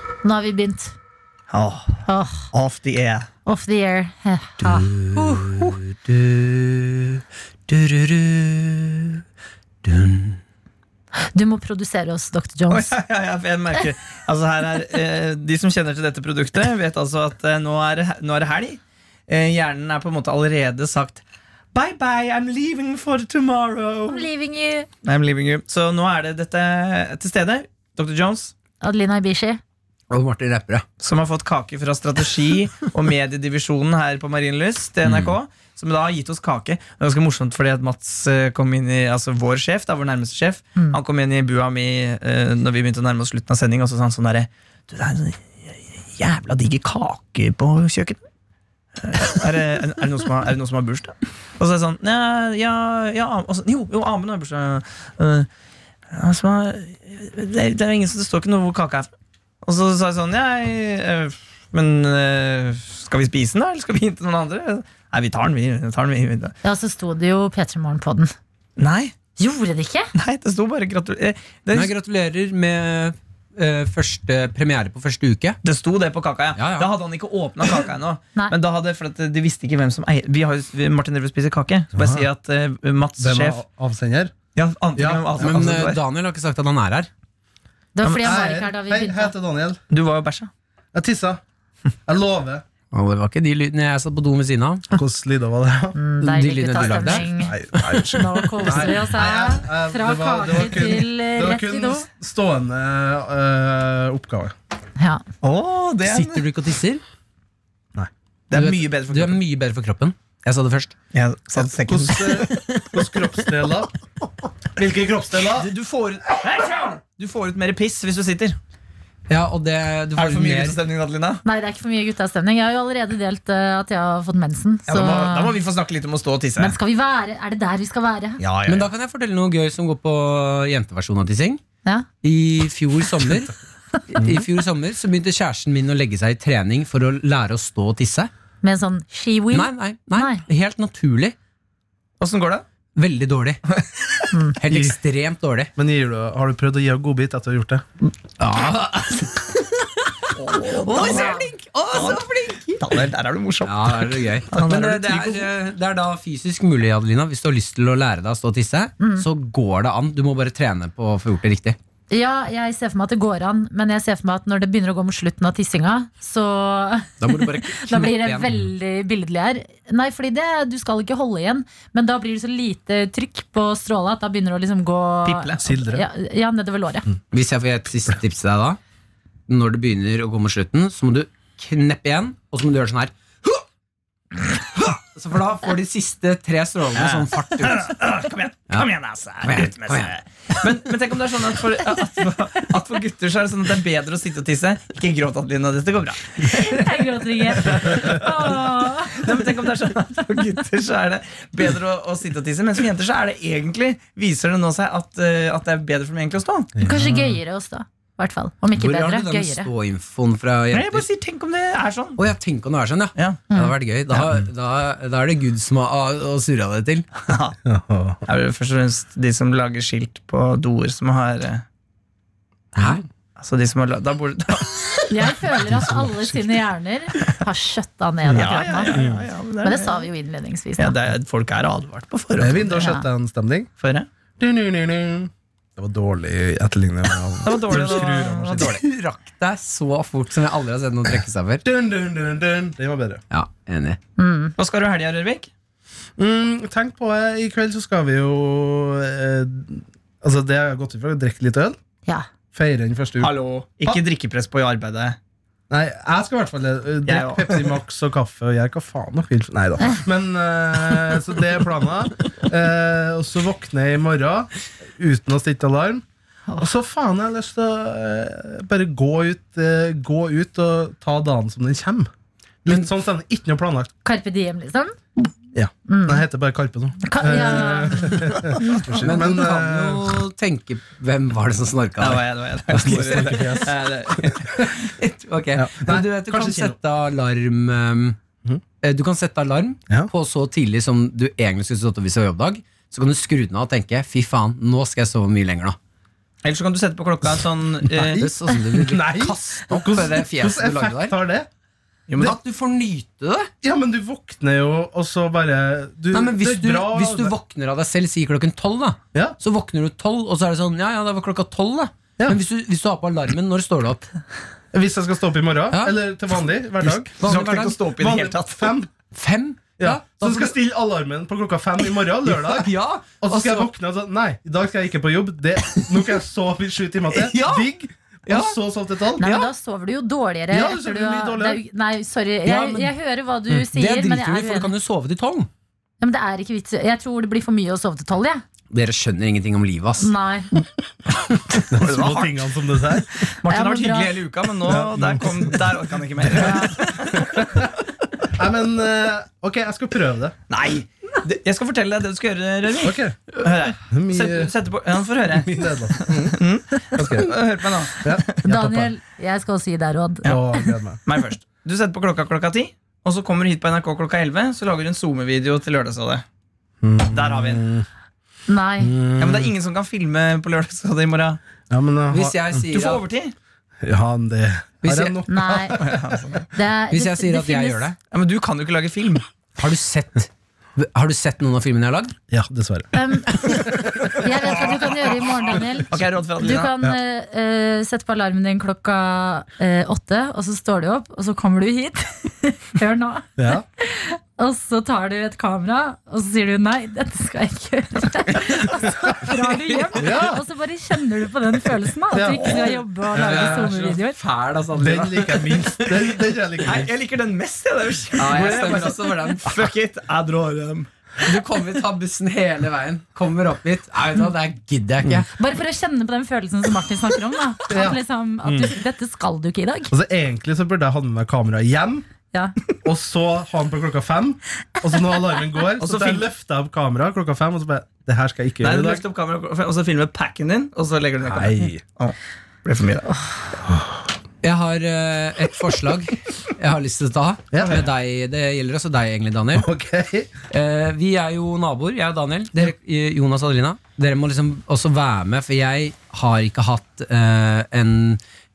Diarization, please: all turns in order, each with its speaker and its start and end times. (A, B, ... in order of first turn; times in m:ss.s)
0:00.2-0:00.9 A
0:01.5-0:02.0 B
0:02.1-0:02.5 A
0:02.5-0:03.3 B
0:03.4-0:05.7 A
0:04.6-0:09.2 C
0:09.8-0:10.4 C
0:11.3-0:13.0 A
0:12.7-0:21.2 B
0:21.7-0:24.3 B
0:24.1-0:24.9 A
0:25.0-0:28.5 B
0:28.8-0:29.6 A
0:30.1-0:30.8 C
0:31.0-0:48.2 B
0:35.1-0:35.3 C
0:49.0-0:55.5 B
0:56.1-0:59.1 B
0:59.6-1:06.6 B
1:06.6-1:08.3 A
1:08.8-1:09.2 B
1:09.4-1:10.1 A
1:10.2-1:11.9 B
1:11.7-1:15.6 C
1:15.6-1:23.6 B
1:16.6-1:16.9 C
1:22.0-1:22.2 D
1:23.2-1:24.3 D
1:24.6-1:26.0 B
1:25.0-1:25.7 D
1:25.4-1:27.1 C
1:28.0-1:29.3 A
1:28.0-1:28.4 B
1:28.2-1:29.8 D
1:29.9-1:30.5 B
1:30.9-1:31.4 D
1:32.1-1:32.6 D
1:32.9-1:34.9 C
1:34.9-1:36.0 D
1:36.0-1:42.1 A
1:36.2-1:39.0 C
1:36.7-1:44.5 D
1:45.0-1:45.2 A
1:45.4-1:46.4 B
1:46.0-1:47.0 C
1:48.5-1:49.4 B
1:48.5-1:51.0 C
1:51.1-1:52.6 B
1:51.6-1:53.9 D
1:52.5-1:53.1 C
1:54.8-1:55.7 D
1:55.6-1:58.6 B
1:59.3-2:00.8 C
2:00.2-2:01.4 B
2:01.4-2:05.5 A
2:04.9-2:06.8 B
2:06.6-2:08.4 A
2:08.4-2:08.9 B
2:08.7-2:11.6 C
2:12.2-2:13.5 C
2:14.1-2:18.3 C
2:18.6-2:20.4 A
2:19.5-2:21.4 C
2:22.2-2:22.6 B
2:23.0-2:23.6 C
2:24.3-2:24.6 A
2:24.6-2:25.7 C
2:25.8-2:27.8 D
2:28.4-2:33.0 C
2:30.3-2:32.2 B
2:30.9-2:31.3 A
2:32.8-2:35.5 B
2:33.6-2:41.8 C
2:39.0-2:39.3 A
2:42.1-2:57.1 A
2:47.2-2:48.5 C
2:55.2-2:55.6 B
2:55.6-2:56.1 D
2:57.3-2:58.8 C
2:59.5-3:03.6 C
3:04.7-3:07.9 C
3:07.0-3:18.5 B
3:09.4-3:10.1 C
3:16.4-3:19.4 A
3:19.1-3:26.7 B
3:26.8-3:27.3 D
3:26.8-3:29.7 A
3:28.8-3:31.1 C
3:30.7-3:32.2 B
3:32.2-3:37.1 C
3:33.2-3:33.4 B
3:37.3-3:37.6 B
3:37.6-3:38.2 D
3:38.3-3:41.6 B
3:42.8-3:43.0 C
3:43.4-3:45.1 B
3:45.1-3:49.0 A
3:45.6-3:46.4 D
3:48.3-3:49.2 D
3:48.3-3:50.1 B
3:49.6-3:51.0 A
3:50.8-3:52.7 B
3:52.4-3:53.7 D
3:52.7-3:53.0 A
3:53.8-3:54.1 B
3:54.4-3:58.8 D
3:57.4-3:58.8 B
3:58.5-4:01.6 C
4:01.6-4:03.2 D
4:03.3-4:04.0 C
4:04.2-4:04.6 A
4:04.6-4:05.5 B
4:06.2-4:11.8 D
4:12.5-4:13.3 D
4:13.2-4:15.2 B
4:15.7-4:26.0 D
4:17.1-4:17.8 B
4:26.6-4:32.1 D
4:32.6-4:33.9 D
4:34.0-4:35.0 A
4:35.5-4:40.1 D
4:35.9-4:36.2 A
4:37.0-4:38.8 A
4:38.9-4:43.7 C
4:42.0-4:44.7 B
4:42.7-4:43.7 D
4:44.6-4:48.2 C
4:45.6-4:46.8 D
4:48.8-4:55.8 C
4:56.4-4:58.2 B
4:58.0-5:01.5 D
4:58.1-5:01.2 C
5:02.1-5:02.4 B
5:02.2-5:03.5 C
5:03.6-5:07.3 D
5:06.1-5:14.1 C
5:14.7-5:17.3 D
5:16.8-5:17.8 C
5:17.2-5:18.8 B
5:18.0-5:18.9 D
5:19.1-5:20.5 C
5:19.8-5:29.3 D
5:22.2-5:23.7 C
5:25.8-5:26.1 C
5:27.1-5:27.7 C
5:28.3-5:28.6 C
5:29.2-5:34.7 A
5:29.2-5:29.5 C
5:30.5-5:31.6 D
5:32.4-5:32.9 C
5:33.5-5:35.5 C
5:36.0-5:38.4 A
5:38.7-5:40.1 C
5:40.0-5:40.5 A
5:41.6-5:42.6 B
5:41.7-5:43.2 D
5:43.2-5:47.3 B
5:43.4-5:44.2 A
5:44.6-5:45.3 D
5:46.2-5:47.7 D
5:46.4-5:46.8 A
5:48.3-5:50.4 D
5:50.5-5:58.4 B
5:52.8-5:53.4 D
5:53.9-5:54.5 D
5:55.3-5:56.4 D
5:57.0-5:57.3 D
5:58.0-5:58.9 D
5:58.4-6:00.6 A
6:00.2-6:01.0 D
6:01.1-6:06.2 B
6:06.8-6:07.8 D
6:07.1-6:07.6 B
6:08.5-6:08.9 A
6:08.9-6:09.5 D
6:09.2-6:11.4 B
6:11.7-6:12.7 D
6:12.1-6:13.0 C
6:12.7-6:13.4 B
6:13.8-6:16.2 D
6:14.8-6:15.2 C
6:15.3-6:15.8 A
6:15.8-6:16.4 B
6:16.5-6:17.9 A
6:16.9-6:18.0 C
6:18.1-6:19.2 B
6:19.6-6:22.2 C
6:22.3-6:24.8 D
6:22.9-6:44.2 A
6:25.9-6:26.7 B
6:33.4-6:33.6 D
6:40.0-6:40.4 D
6:42.1-6:43.9 D
6:43.2-6:46.2 C
6:44.8-6:46.9 D
6:46.6-6:50.9 B
6:48.2-6:49.7 C
6:51.2-6:55.3 C
6:55.4-6:59.9 A
6:57.7-6:58.7 D
6:59.9-7:02.0 D
7:02.8-7:09.0 D
7:05.8-7:06.3 B
7:08.6-7:13.1 B
7:11.2-7:11.8 D
7:14.4-7:19.7 C
7:17.5-7:17.9 D
7:19.6-7:20.3 D
7:20.5-7:28.2 C